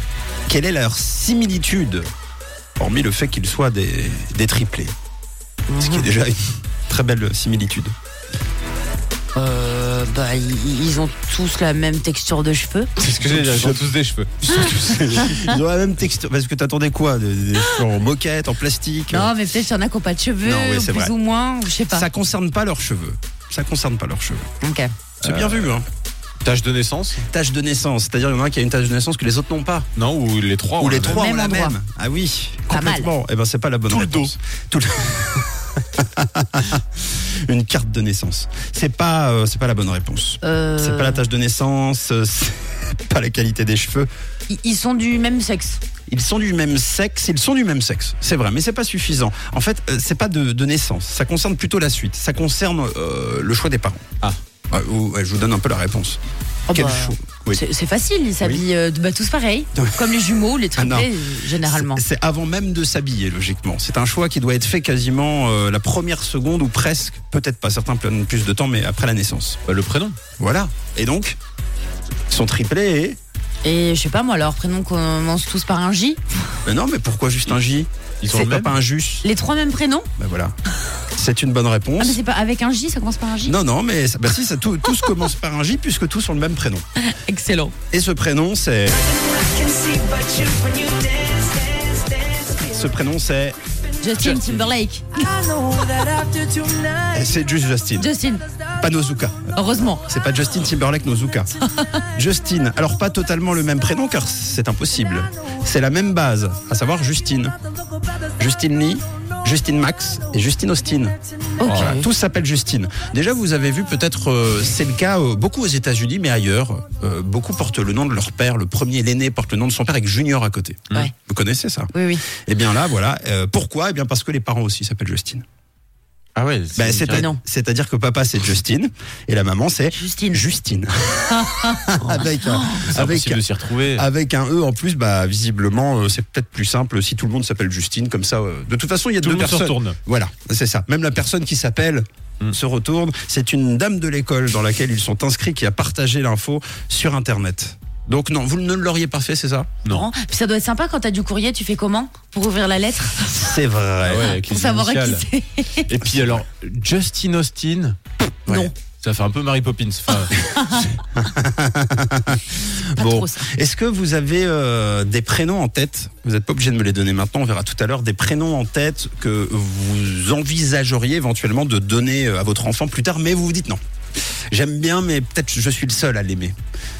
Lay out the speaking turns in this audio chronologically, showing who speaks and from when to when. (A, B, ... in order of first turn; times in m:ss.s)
0:00.5-0:02.0 A
0:02.8-0:04.9 A
0:05.7-0:06.1 B
0:05.8-0:07.9 A
0:09.3-0:12.9 B
0:13.0-0:15.2 C
0:13.2-0:13.8 A
0:14.4-0:19.3 A
0:15.2-0:15.5 B
0:19.1-0:22.1 B
0:20.4-0:21.1 A
0:21.9-0:24.5 A
0:24.6-0:24.9 B
0:25.2-0:25.9 A
0:25.2-0:25.7 C
0:26.4-0:27.2 C
0:27.2-0:29.9 A
0:30.0-0:31.2 C
0:30.8-0:44.1 A
0:31.0-0:31.8 B
0:32.7-0:33.1 B
0:33.9-0:34.3 C
0:40.4-0:41.2 B
0:44.5-0:45.8 B
0:46.1-0:54.1 A
0:54.7-0:56.2 A
0:56.7-1:02.0 B
0:56.7-0:57.6 A
1:00.8-1:01.1 A
1:01.6-1:09.6 A
1:09.7-1:10.2 C
1:10.4-1:11.4 A
1:12.3-1:13.2 A
1:13.6-1:16.2 B
1:16.6-1:19.2 A
1:18.2-1:18.7 C
1:19.2-1:20.1 B
1:20.2-1:20.5 A
1:21.1-1:22.2 A
1:22.0-1:23.6 B
1:23.4-1:26.8 A
1:27.0-1:27.7 B
1:27.9-1:29.2 A
1:30.4-1:30.8 B
1:32.4-1:33.6 A
1:34.0-1:36.9 B
1:34.2-1:34.7 A
1:37.1-1:38.1 A
1:38.0-1:38.4 B
1:38.8-1:39.5 A
1:39.5-1:40.0 B
1:40.0-1:41.5 A
1:42.1-1:47.5 A
1:48.4-2:05.4 A
1:51.6-1:52.1 B
2:01.9-2:02.2 B
2:06.4-2:07.2 C
2:06.8-2:29.8 A
2:07.1-2:07.4 B
2:09.9-2:10.4 B
2:11.3-2:12.8 B
2:12.8-2:14.0 C
2:19.2-2:20.0 C
2:29.8-2:30.1 C
2:29.8-2:33.6 B
2:33.3-2:34.3 A
2:34.0-2:35.2 C
2:34.1-2:35.9 B
2:35.9-2:38.0 C
2:38.5-2:38.7 A
2:38.5-2:38.7 B
2:38.8-2:40.3 C
2:40.2-2:41.0 B
2:41.1-2:53.8 A
2:42.9-2:43.4 B
2:54.5-2:56.5 A